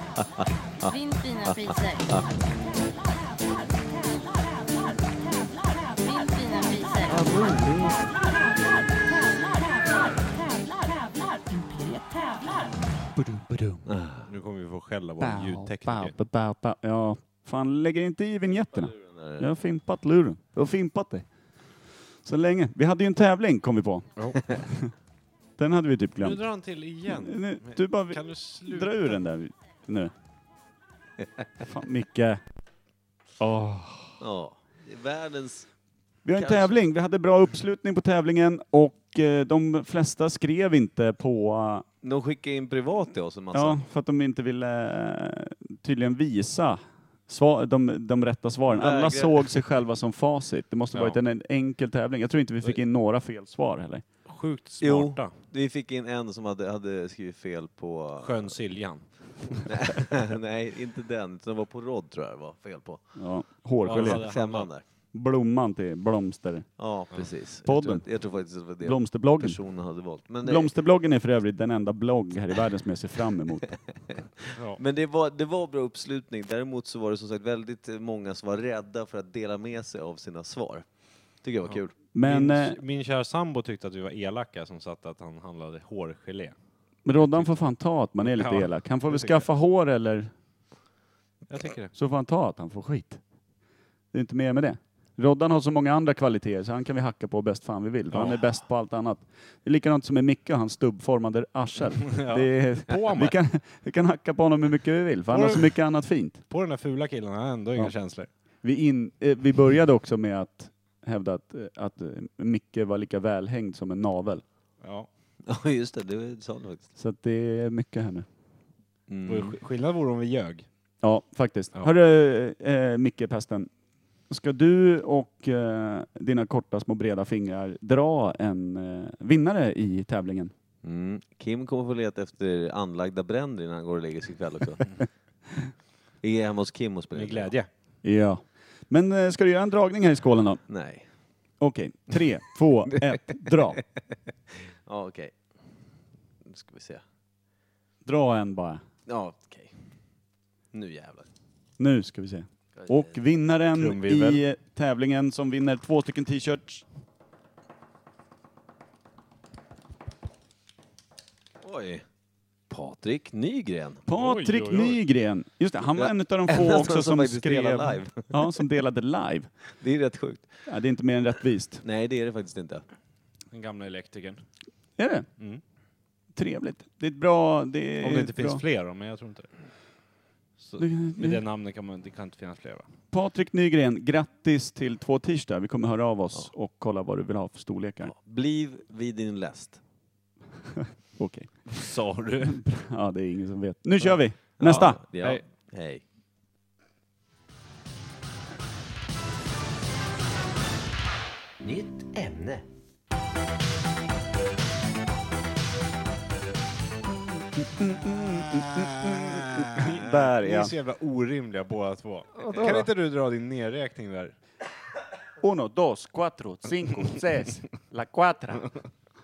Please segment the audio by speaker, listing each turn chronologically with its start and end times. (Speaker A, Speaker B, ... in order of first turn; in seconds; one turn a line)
Speaker A: 0.2-0.9
Speaker B: 0.9-2.2
Speaker A: 1.4-2.3
Speaker B: 6.0-7.2
Speaker A: 7.1-8.0
Speaker C: 11.5-12.0
Speaker C: 13.1-13.9
Speaker A: 13.8-14.3
Speaker D: 14.2-16.2
Speaker C: 15.2-21.3
Speaker A: 18.7-19.5
Speaker C: 22.1-24.9
Speaker C: 25.6-26.4
Speaker D: 26.2-29.2
Speaker C: 27.1-30.1
Speaker C: 31.6-32.4
Speaker C: 33.4-34.2
Speaker A: 34.2-35.7
Speaker C: 36.2-41.9
Speaker A: 36.4-36.8
Speaker A: 42.0-43.8
Speaker C: 43.5-54.0
Speaker A: 48.7-49.5
Speaker D: 50.9-51.2
Speaker D: 54.2-55.3
Speaker A: 54.8-58.5
Speaker D: 58.2-59.7
Speaker A: 59.6-63.0
Speaker C: 63.1-64.3
Speaker D: 63.8-64.7
Speaker A: 63.9-64.8
Speaker C: 65.1-66.8
Speaker A: 66.8-70.7
Speaker C: 67.6-69.6
Speaker C: 70.4-73.7
Speaker D: 74.5-74.8
Speaker A: 74.8-80.9
Speaker A: 81.4-81.9
Speaker D: 81.7-86.5
Speaker C: 82.1-82.8
Speaker C: 87.0-90.3
Speaker D: 87.1-87.5
Speaker D: 88.3-89.5
Speaker D: 91.5-91.9
Speaker C: 91.9-93.2
Speaker C: 94.1-106.4
Speaker D: 98.1-98.4
Speaker D: 102.1-103.4
Speaker D: 105.3-105.8
Speaker D: 106.5-108.3
Speaker C: 108.6-114.4
Speaker D: 114.8-115.1
Speaker A: 115.4-116.9
Speaker C: 117.0-118.3
Speaker A: 119.1-119.6
Speaker D: 119.3-120.7
Speaker C: 121.0-123.7
Speaker C: 124.3-130.5
Speaker A: 130.8-134.9
Speaker A: 136.2-137.5
Speaker D: 137.1-137.7
Speaker C: 138.0-140.6
Speaker A: 140.7-141.1
Speaker C: 141.6-143.8
Speaker A: 144.8-145.4
Speaker A: 146.4-147.0
Speaker C: 148.0-148.8
Speaker A: 149.1-150.0
Speaker A: 150.7-151.3
Speaker C: 151.8-156.8
Speaker A: 152.8-153.1
Speaker D: 153.8-154.4
Speaker A: 161.6-162.0
Speaker A: 162.7-164.0
Speaker C: 164.1-169.5
Speaker D: 164.1-165.0
Speaker A: 165.9-168.4
Speaker A: 169.8-170.6
Speaker C: 170.7-171.8
Speaker A: 171.8-172.8
Speaker D: 173.5-174.4
Speaker C: 175.0-175.3
Speaker C: 176.3-178.6
Speaker D: 178.0-179.5
Speaker D: 180.6-182.9
Speaker C: 180.8-181.4
Speaker C: 183.1-188.1
Speaker A: 188.1-189.8
Speaker C: 191.2-191.7
Speaker D: 191.7-192.6
Speaker C: 192.4-195.0
Speaker D: 194.0-195.4
Speaker A: 194.6-196.0
Speaker A: 201.6-202.6
Speaker C: 207.4-210.7
Speaker D: 209.8-214.3
Speaker C: 212.6-212.8
Speaker C: 215.4-218.7